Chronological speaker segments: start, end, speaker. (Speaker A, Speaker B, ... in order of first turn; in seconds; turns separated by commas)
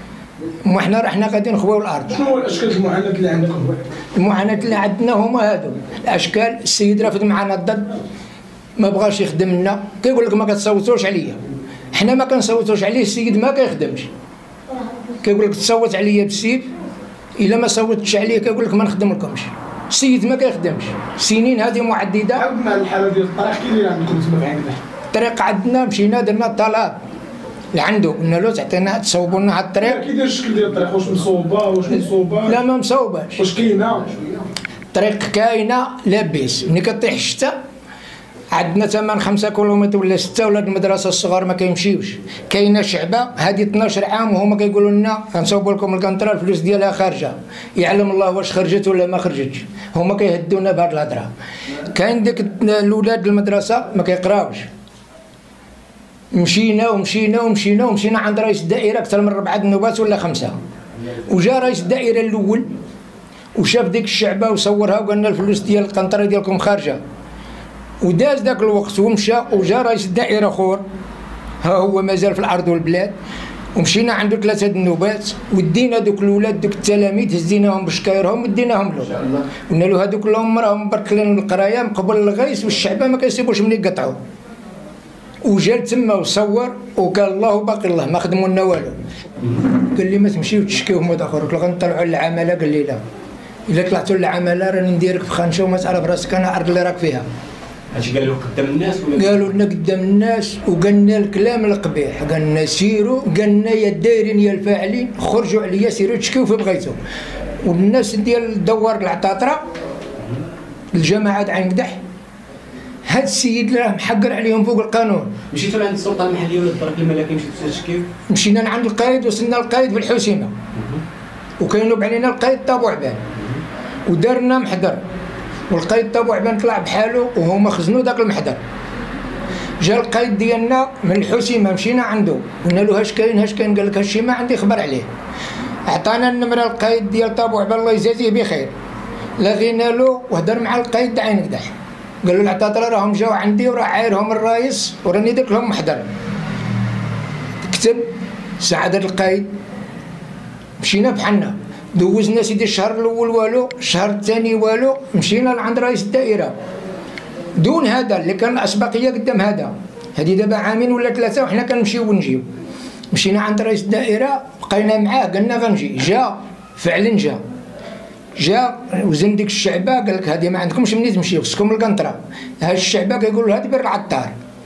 Speaker A: 0.7-2.2, Speaker B: 2.1-3.8, Speaker A: 4.2-8.0, Speaker A: 8.8-11.4, Speaker A: 11.9-14.1, Speaker A: 15.2-16.7, Speaker A: 17.4-22.5, Speaker B: 22.4-24.8, Speaker A: 25.1-27.0, Speaker A: 27.8-30.0, Speaker B: 29.9-32.6, Speaker A: 32.4-33.5, Speaker B: 33.4-34.2, Speaker A: 34.9-37.5, Speaker A: 38.5-51.3, Speaker A: 51.9-54.7, Speaker A: 56.3-60.6, Speaker A: 61.2-62.7, Speaker A: 63.6-67.0, Speaker A: 68.0-70.8, Speaker A: 71.6-73.2, Speaker A: 73.8-84.2, Speaker A: 85.4-89.0, Speaker A: 89.8-93.0, Speaker A: 93.7-97.2, Speaker C: 97.9-99.4, Speaker A: 99.1-107.0, Speaker A: 107.6-109.6, Speaker A: 110.9-112.0, Speaker A: 113.1-115.4, Speaker C: 115.5-118.1, Speaker A: 118.3-120.5, Speaker A: 121.6-123.2, Speaker A: 124.1-125.0, Speaker A: 125.7-128.6, Speaker A: 129.8-135.1, Speaker A: 135.9-138.7, Speaker A: 139.4-141.7, Speaker A: 142.2-146.1, Speaker A: 147.6-148.1, Speaker A: 148.6-149.5, Speaker A: 150.8-156.5, Speaker A: 157.6-162.4, Speaker A: 163.1-167.4, Speaker A: 168.4-174.3